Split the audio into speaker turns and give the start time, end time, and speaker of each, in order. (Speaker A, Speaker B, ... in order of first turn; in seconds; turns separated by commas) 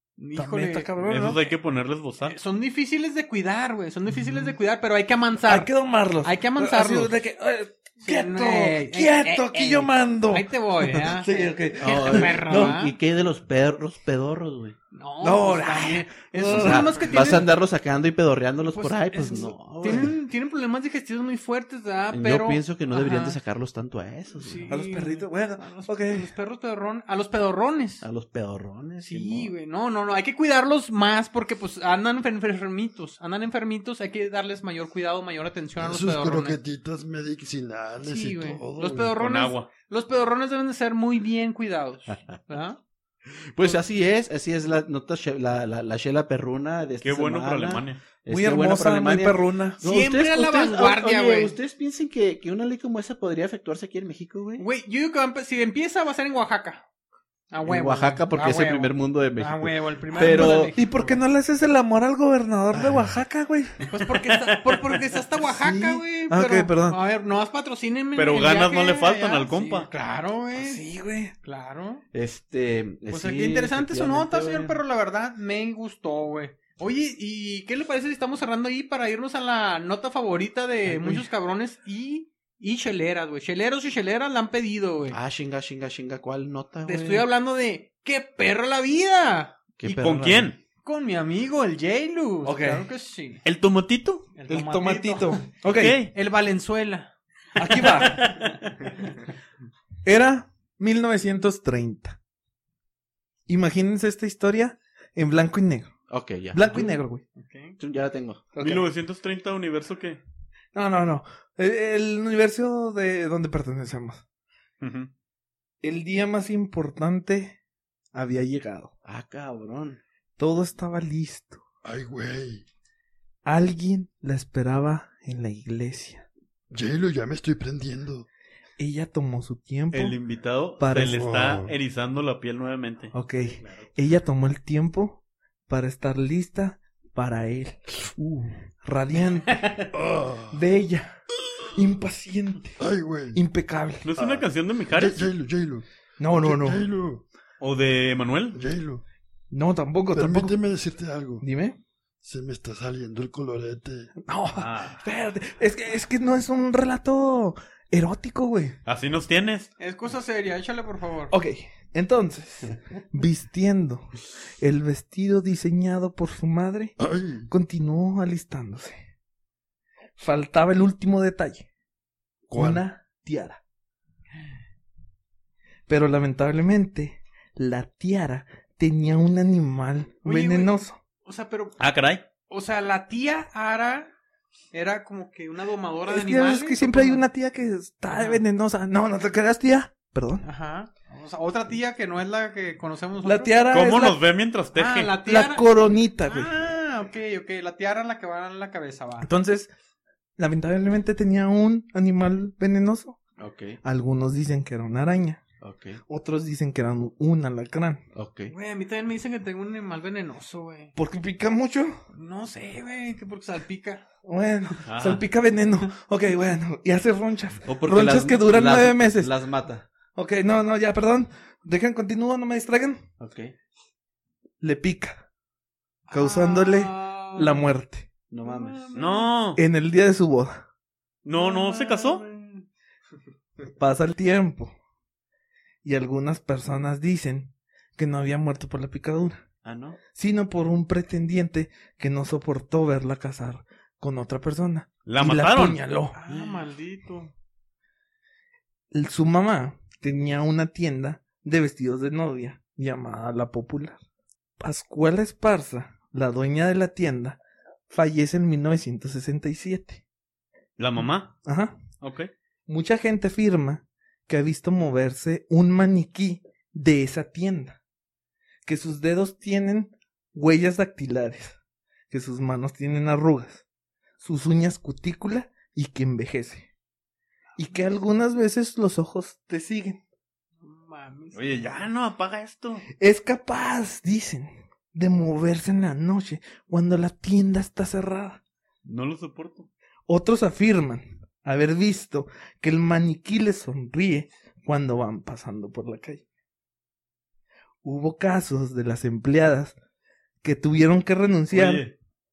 Speaker A: 0.2-0.9, Speaker B: 0.3-1.4, Speaker C: 1.0-2.4, Speaker A: 2.2-5.7, Speaker B: 4.2-4.4, Speaker B: 5.5-12.8, Speaker A: 6.2-7.1, Speaker A: 8.0-12.9, Speaker D: 11.8-14.8, Speaker A: 14.9-17.5, Speaker B: 15.2-17.1, Speaker D: 16.5-20.1, Speaker A: 18.7-23.4, Speaker D: 22.1-24.7, Speaker A: 24.4-28.0, Speaker B: 24.7-26.3, Speaker D: 28.0-29.5, Speaker A: 29.0-36.6, Speaker E: 35.8-39.1, Speaker A: 38.0-42.8, Speaker C: 39.2-39.7, Speaker D: 42.0-42.4, Speaker D: 43.5-54.6, Speaker C: 47.0-48.0, Speaker B: 48.3-49.8, Speaker A: 49.8-51.5, Speaker A: 54.6-56.8, Speaker A: 57.5-61.2, Speaker D: 57.6-60.8, Speaker B: 60.1-63.8, Speaker A: 63.8-70.8, Speaker C: 64.3-65.0, Speaker B: 65.5-67.0, Speaker C: 68.1-69.9, Speaker B: 70.5-71.3, Speaker A: 71.4-72.0, Speaker D: 72.1-74.8, Speaker A: 73.1-85.2, Speaker D: 80.8-81.3, Speaker D: 85.1-87.2, Speaker A: 86.8-89.5, Speaker D: 89.8-90.5, Speaker C: 89.8-90.6, Speaker A: 90.8-93.4, Speaker B: 92.4-92.8, Speaker C: 93.4-94.3, Speaker A: 94.3-95.5, Speaker B: 94.5-96.0, Speaker C: 95.7-96.1, Speaker A: 96.1-97.1, Speaker B: 97.5-98.4, Speaker C: 98.0-98.7, Speaker B: 100.0-102.2, Speaker B: 103.5-105.9, Speaker D: 106.1-106.9, Speaker B: 106.5-107.2, Speaker A: 107.4-107.8, Speaker D: 107.8-108.5, Speaker B: 108.5-108.8, Speaker C: 108.6-110.2, Speaker B: 110.7-114.2, Speaker C: 114.8-115.1, Speaker B: 115.8-117.6, Speaker B: 118.1-118.9, Speaker D: 119.0-120.0, Speaker B: 120.4-121.6, Speaker E: 121.8-122.6, Speaker B: 123.4-126.2, Speaker E: 126.7-128.3, Speaker B: 128.8-130.2, Speaker C: 129.9-133.9, Speaker B: 130.8-131.2, Speaker E: 131.1-131.7, Speaker B: 133.1-139.7, Speaker E: 139.9-140.6, Speaker B: 140.5-141.2, Speaker B: 141.7-142.8, Speaker E: 142.8-143.4, Speaker B: 143.3-144.1, Speaker C: 144.0-145.3, Speaker E: 144.2-147.2, Speaker B: 146.2-146.9, Speaker C: 147.6-148.6, Speaker E: 148.5-149.0, Speaker B: 149.5-150.6, Speaker E: 150.1-151.4, Speaker B: 151.4-151.8, Speaker E: 152.2-154.1, Speaker B: 154.2-158.8, Speaker C: 154.6-155.0, Speaker C: 158.8-159.7, Speaker A: 159.8-161.3, Speaker B: 161.3-164.1, Speaker B: 164.6-166.9, Speaker E: 167.0-167.5, Speaker B: 167.5-169.0, Speaker B: 170.2-171.7, Speaker E: 172.5-172.8, Speaker B: 172.5-173.6, Speaker B: 175.9-181.0, Speaker A: 180.2-181.8, Speaker C: 181.8-182.2, Speaker A: 182.5-184.1, Speaker A: 184.7-187.2, Speaker B: 186.1-190.4, Speaker A: 188.1-188.4, Speaker A: 190.4-193.6, Speaker B: 193.2-194.2, Speaker C: 193.7-195.2, Speaker A: 194.7-199.3, Speaker B: 195.2-196.5, Speaker B: 199.2-199.7, Speaker B: 200.4-203.2, Speaker D: 203.4-203.8, Speaker B: 203.8-205.4, Speaker D: 205.6-206.0, Speaker B: 206.1-208.0, Speaker D: 208.1-208.5, Speaker A: 208.5-210.9, Speaker B: 210.9-212.0, Speaker A: 212.1-214.0, Speaker B: 214.2-219.3, Speaker C: 214.8-215.2, Speaker D: 217.7-219.8, Speaker B: 220.1-223.0, Speaker D: 223.2-223.5, Speaker B: 224.6-225.2, Speaker A: 226.1-227.6, Speaker B: 226.1-228.1, Speaker D: 228.3-228.9, Speaker A: 228.4-229.3, Speaker C: 228.9-229.6, Speaker B: 229.5-230.5, Speaker C: 231.2-232.2, Speaker A: 231.3-232.6, Speaker B: 233.7-234.7, Speaker B: 235.8-239.4, Speaker D: 239.6-240.0, Speaker B: 240.1-246.2, Speaker C: 245.1-247.3, Speaker A: 246.1-247.2, Speaker B: 248.9-254.0, Speaker B: 254.6-260.0, Speaker C: 260.8-261.4, Speaker B: 261.4-261.8, Speaker C: 262.0-262.3, Speaker B: 262.7-267.8, Speaker B: 268.6-271.6, Speaker B: 272.1-273.6, Speaker B: 274.2-276.7, Speaker B: 277.6-280.0, Speaker A: 280.6-281.4, Speaker C: 281.3-282.8, Speaker B: 283.0-288.4, Speaker C: 288.8-289.7, Speaker B: 290.1-296.2, Speaker B: 297.8-299.7, Speaker B: 300.4-301.9, Speaker C: 301.5-301.9